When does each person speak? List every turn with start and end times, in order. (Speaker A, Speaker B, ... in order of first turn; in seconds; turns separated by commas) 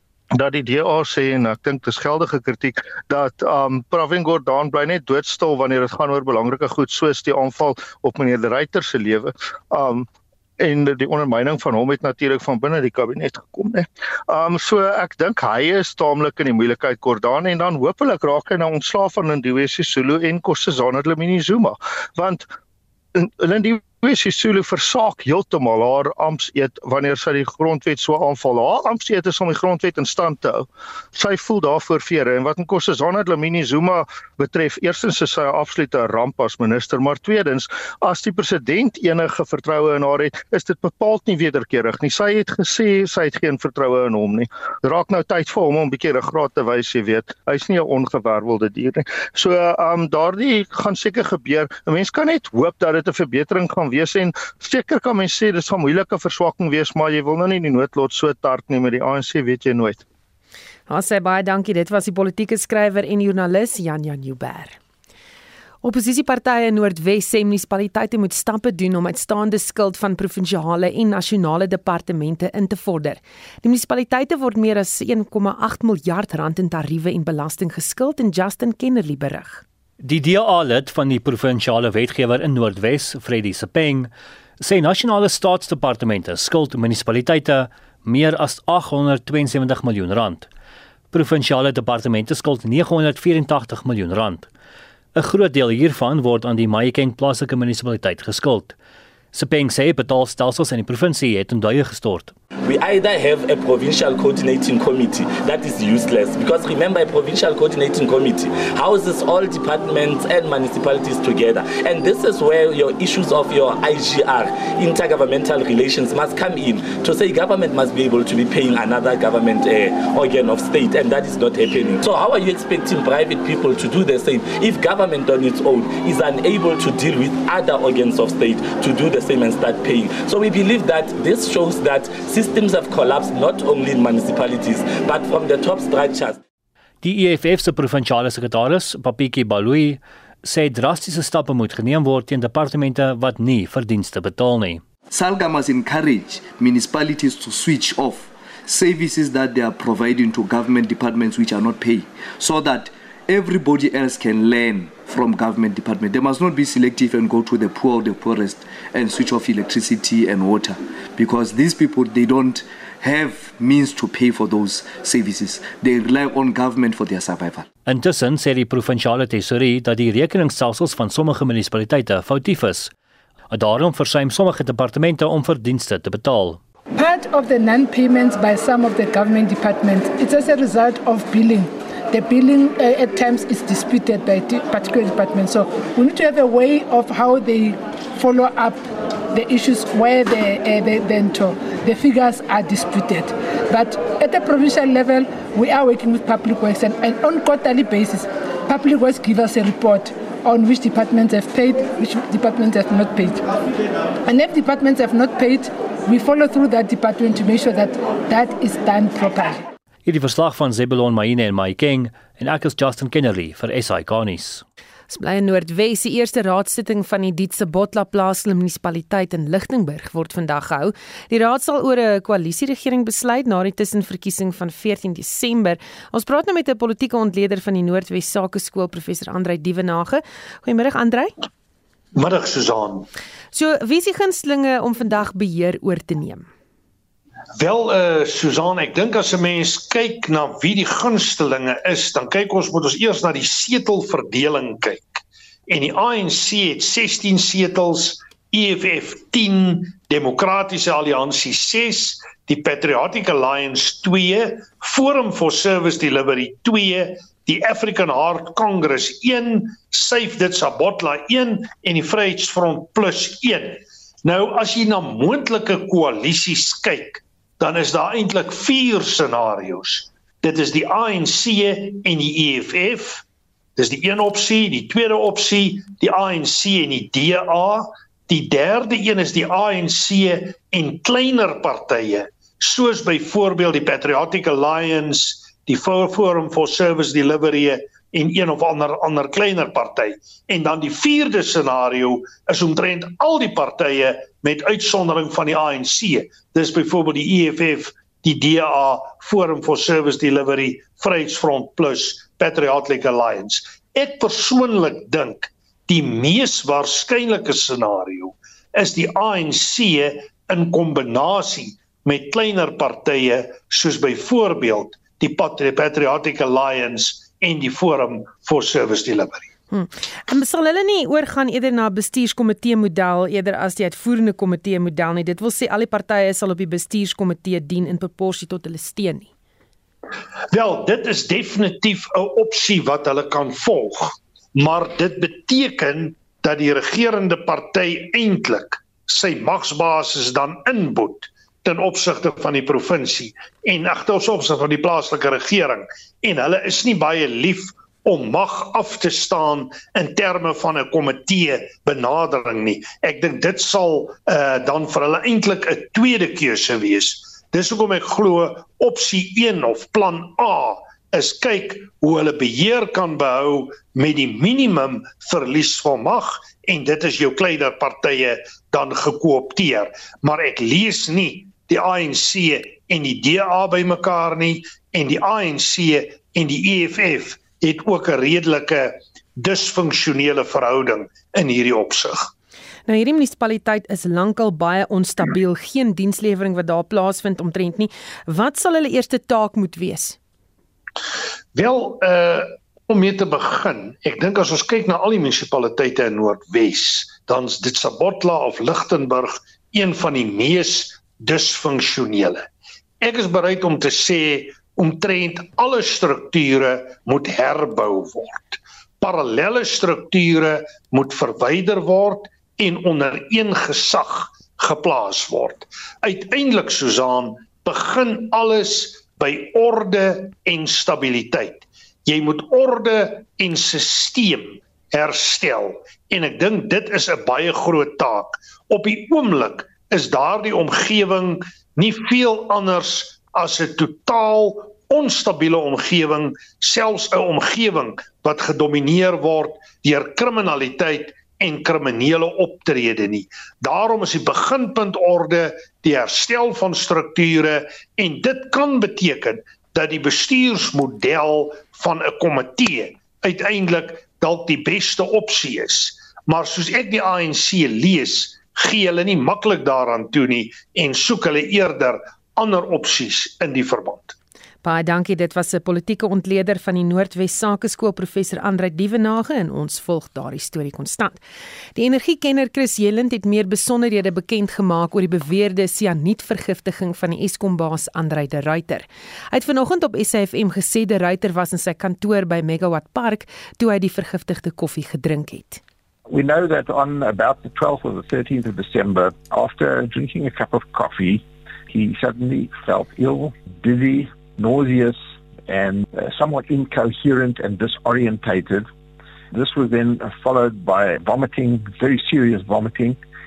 Speaker A: 0.3-10.1, Speaker A: 10.6-22.5, Speaker A: 23.1-60.0, Speaker B: 60.9-64.8, Speaker B: 65.8-79.6, Speaker C: 80.0-90.5, Speaker C: 91.1-94.5, Speaker C: 95.1-98.8, Speaker C: 99.3-102.3, Speaker D: 102.6-136.4, Speaker C: 137.0-144.8, Speaker E: 145.1-167.7, Speaker C: 167.8-172.9, Speaker C: 173.5-176.6, Speaker F: 176.9-203.5, Speaker F: 204.2-209.6, Speaker C: 210.1-214.6, Speaker B: 215.1-231.3, Speaker G: 232.2-233.1, Speaker B: 233.5-236.5, Speaker G: 237.6-273.2, Speaker G: 273.8-319.5, Speaker B: 319.7-329.3, Speaker G: 330.5-382.3, Speaker B: 382.9-390.2, Speaker G: 391.5-402.5, Speaker G: 403.0-464.1, Speaker B: 464.6-471.2, Speaker B: 471.8-485.6, Speaker H: 486.1-498.7, Speaker H: 499.3-503.0